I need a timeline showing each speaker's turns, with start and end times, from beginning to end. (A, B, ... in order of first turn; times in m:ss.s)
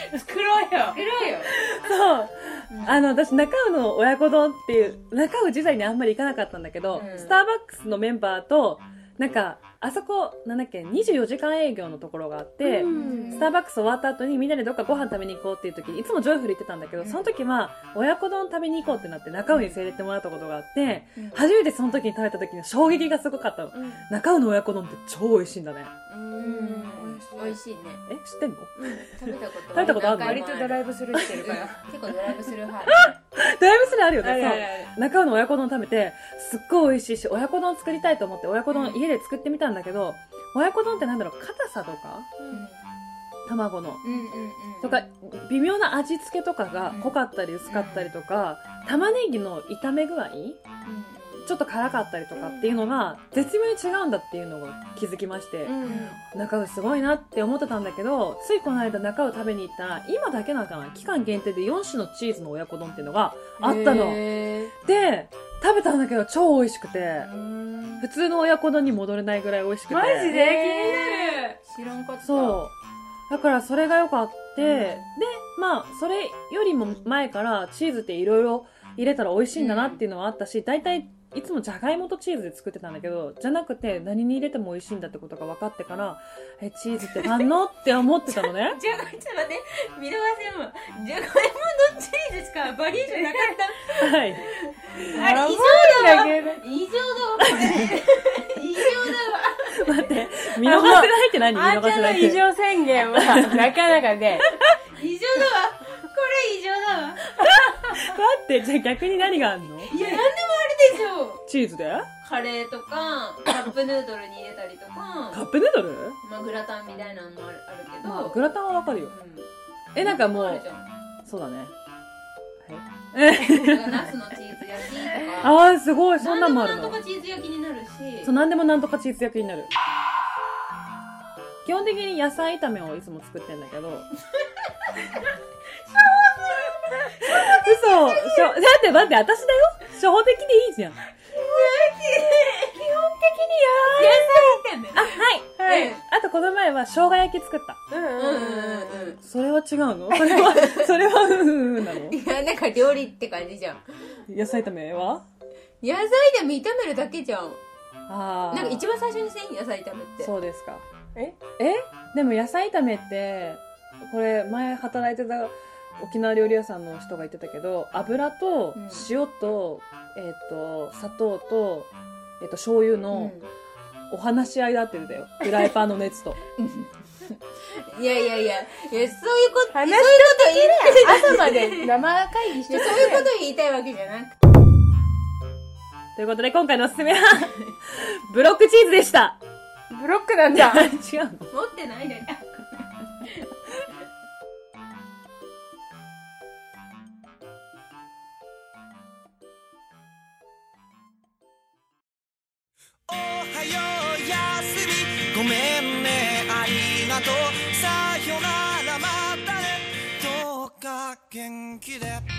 0:00.2-0:00.9 A
0:00.2-0:01.5 B
0:01.4-0:25.9 C
0:02.7-0:03.0 B
0:06.9-0:07.3 B
0:07.0-0:07.3 A
0:12.6-0:13.5 A
0:12.8-0:13.5 B
0:17.0-0:17.3 B
0:21.2-0:21.4 B
0:23.7-0:24.0 A
0:26.1-0:27.6 A
0:26.4-0:28.0 B
0:28.1-0:28.9 C
0:28.8-0:29.1 A
0:29.1-0:33.1 B
0:29.7-0:30.5 C
0:29.8-0:31.8 A
0:32.9-0:42.3 C
0:34.2-0:34.9 A
0:38.7-0:39.0 B
0:42.4-0:42.6 A
0:42.5-0:42.8 B
0:43.4-0:44.0 C
0:44.0-0:45.0 B
0:44.8-0:50.6 C
0:46.9-0:48.1 B
0:50.8-0:51.6 B
0:51.4-1:04.2 C
0:52.3-0:52.8 A
0:55.6-0:56.2 A
0:55.9-0:56.1 B
1:03.6-1:04.7 B
1:04.8-1:07.3 C
1:07.2-1:08.0 A
1:08.0-1:10.3 C
1:09.9-1:11.6 A
1:10.0-1:12.6 B
1:12.2-1:12.7 C
1:13.3-1:28.8 C
1:14.6-1:14.9 A
1:19.5-1:20.0 B
1:28.4-1:40.1 B
1:33.0-1:33.6 A
1:34.0-1:34.4 C
1:35.1-1:36.6 A
1:37.4-1:37.9 C
1:39.7-1:42.4 C
1:40.6-1:44.4 A
1:43.0-1:43.7 C
1:44.7-1:48.1 B
1:47.3-1:50.0 C
1:49.8-1:51.4 B
1:51.4-1:52.1 C
1:52.2-1:55.4 B
1:55.3-1:56.2 C
1:56.2-2:00.9 B
1:58.0-1:59.1 C
1:59.9-2:00.6 C
2:01.2-2:01.7 C
2:02.6-2:04.1 C
2:03.3-2:05.6 B
2:05.4-2:07.0 C
2:06.2-2:08.3 B
2:08.2-2:09.7 C
2:11.6-2:14.0 C
2:15.0-2:15.3 B
2:15.9-2:18.6 B
2:17.2-2:21.0 C
2:21.3-2:23.0 B
2:22.8-2:27.8 C
2:23.8-2:26.0 B
2:27.9-2:29.1 A
2:28.2-2:29.2 B
2:29.2-2:32.2 C
2:30.4-2:30.9 B
2:31.9-2:34.2 B
2:34.3-2:35.2 C
2:35.8-2:37.6 B
2:38.1-2:38.8 C
2:38.5-2:40.3 B
2:40.2-2:40.8 C
2:41.6-2:53.4 C
2:48.7-2:49.1 B
2:53.1-2:53.5 B
2:54.1-2:56.4 C
2:56.6-2:56.9 B
2:57.6-3:02.0 B
2:59.7-3:03.3 A
3:02.6-3:04.4 B
3:06.2-3:09.4 C
3:09.9-3:10.9 A
3:10.6-3:11.5 C
3:11.5-3:12.6 B
3:23.1-3:32.2 D